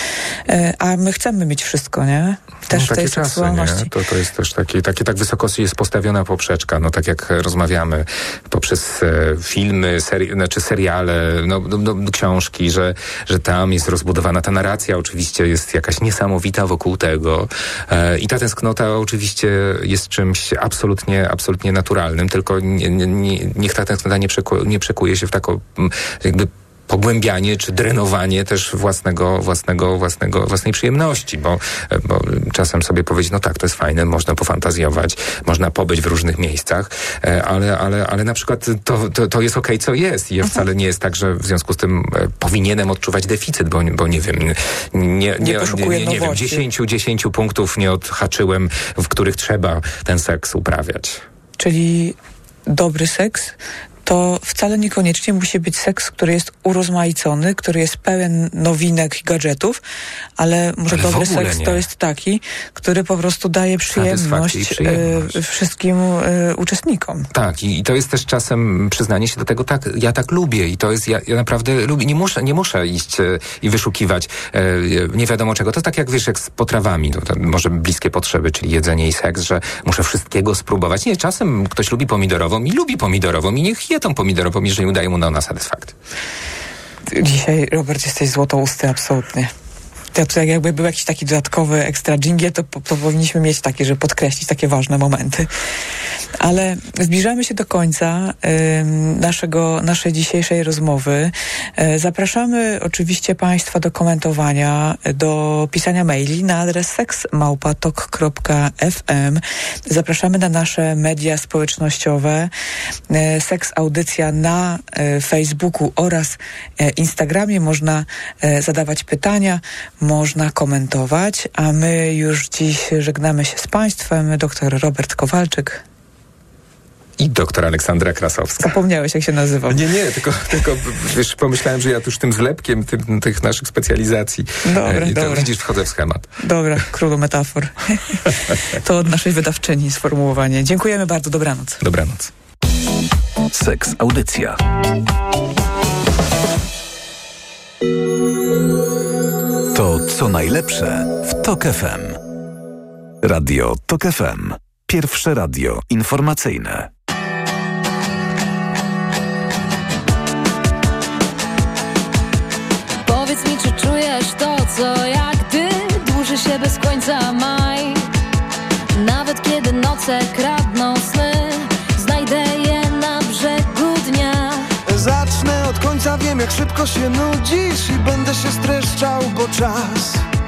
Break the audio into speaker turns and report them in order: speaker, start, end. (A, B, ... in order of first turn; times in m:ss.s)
0:00.5-0:03.9 A
0:02.7-0:51.2 B
0:45.4-0:46.6 A
0:51.6-0:52.2 A
0:52.7-0:59.8 A
1:00.4-1:07.3 A
1:00.9-1:01.8 B
1:03.9-1:05.4 B
1:07.3-1:25.9 B
1:27.1-1:29.5 A
1:30.1-1:35.5 A
1:36.4-1:52.5 A
1:53.1-2:05.8 A
2:07.2-2:08.8 B
2:08.6-2:09.8 A
2:09.7-2:16.3 B
2:14.6-2:15.6 A
2:16.4-2:21.8 A
2:21.8-2:22.3 B
2:23.5-2:24.6 C
2:29.7-2:32.2 C
2:33.2-2:36.9 C
2:43.0-2:48.1 D
2:48.9-2:54.7 D
2:54.9-3:00.2 E